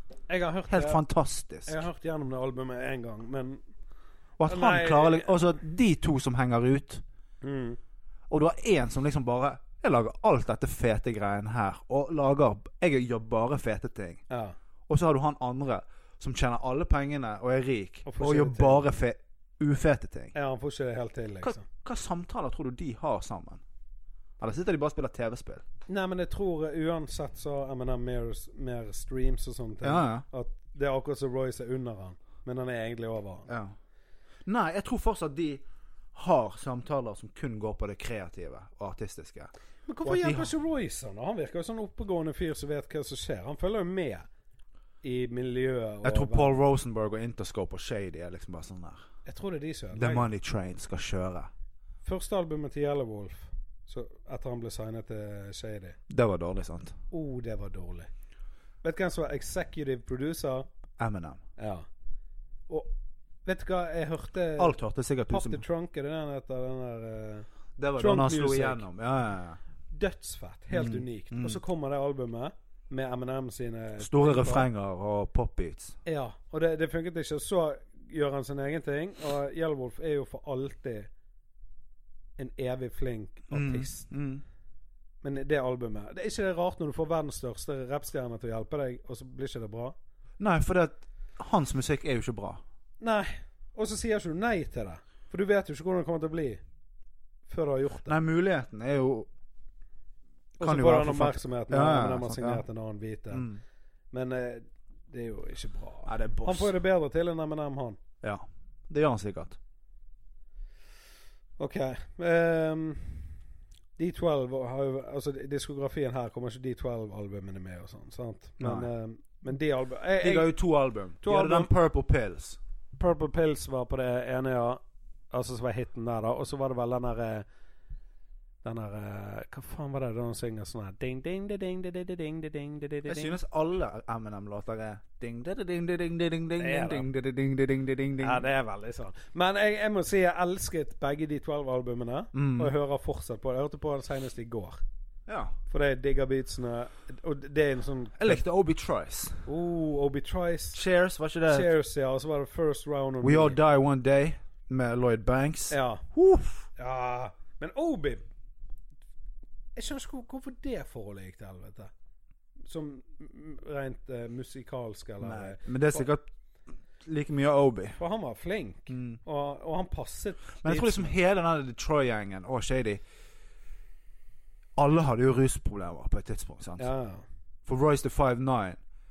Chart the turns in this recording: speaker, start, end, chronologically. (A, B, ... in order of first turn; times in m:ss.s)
0:00.3-0:01.0 A
0:00.7-0:01.8 B
0:01.6-0:03.6 A
0:04.4-0:07.0 B
0:04.4-0:05.4 A
0:07.4-0:07.8 A
0:08.3-0:14.2 B
0:14.3-0:14.6 A
0:14.9-0:20.3 B
0:18.0-0:18.9 A
0:20.3-0:21.6 A
0:21.4-0:23.6 B
0:24.4-0:25.6 B
0:25.9-0:33.5 A
0:29.8-0:30.2 B
0:33.5-0:33.8 B
0:34.4-0:35.6 B
0:36.1-0:39.5 B
0:39.9-0:44.3 A
0:40.0-0:40.5 B
0:45.0-0:46.6 A
0:46.0-0:49.0 B
0:49.3-0:50.3 A
0:49.9-0:51.5 B
0:52.0-0:56.0 A
0:56.1-0:56.9 B
0:57.1-0:58.1 A
0:58.8-1:00.7 A
1:01.0-1:01.4 B
1:01.6-1:01.9 A
1:03.4-1:04.8 A
1:04.6-1:05.6 B
1:05.3-1:08.8 A
1:07.8-1:09.6 B
1:09.9-1:14.7 A
1:10.7-1:11.6 B
1:14.0-1:16.0 B
1:16.1-1:21.1 A
1:22.4-1:24.1 A
1:23.5-1:24.4 B
1:25.2-1:29.9 A
1:30.4-1:32.6 B
1:33.0-1:36.6 A
1:37.5-1:38.1 A
1:38.1-1:39.3 B
1:40.6-1:43.5 A
1:40.6-1:42.6 B
1:43.3-1:43.6 B
1:44.1-1:48.0 A
1:46.1-1:46.7 B
1:48.2-1:49.6 B
1:51.6-1:53.3 A
1:54.0-2:00.6 A
1:58.6-1:58.9 B
2:00.2-2:02.6 B
2:01.2-2:01.7 A
2:03.0-2:07.4 A
2:08.6-2:13.4 A
2:13.1-2:18.4 B
2:16.6-2:17.1 A
2:18.2-2:24.8 A
2:22.3-2:22.7 B
2:25.3-2:25.5 B
2:25.7-2:28.4 A
2:28.2-2:29.4 B
2:29.4-2:30.8 A
2:30.7-2:31.7 B
2:31.5-2:33.6 A
2:33.2-2:36.7 B
2:35.7-2:36.0 A
2:36.8-2:38.2 A
2:39.8-2:41.9 A
2:42.6-2:46.1 A
2:45.2-2:46.2 B
2:47.0-2:48.0 B
2:48.0-2:51.2 A
2:48.9-2:49.2 B
2:50.6-2:53.0 B
2:54.8-2:56.9 B
2:56.8-2:57.2 A
2:57.7-2:58.8 B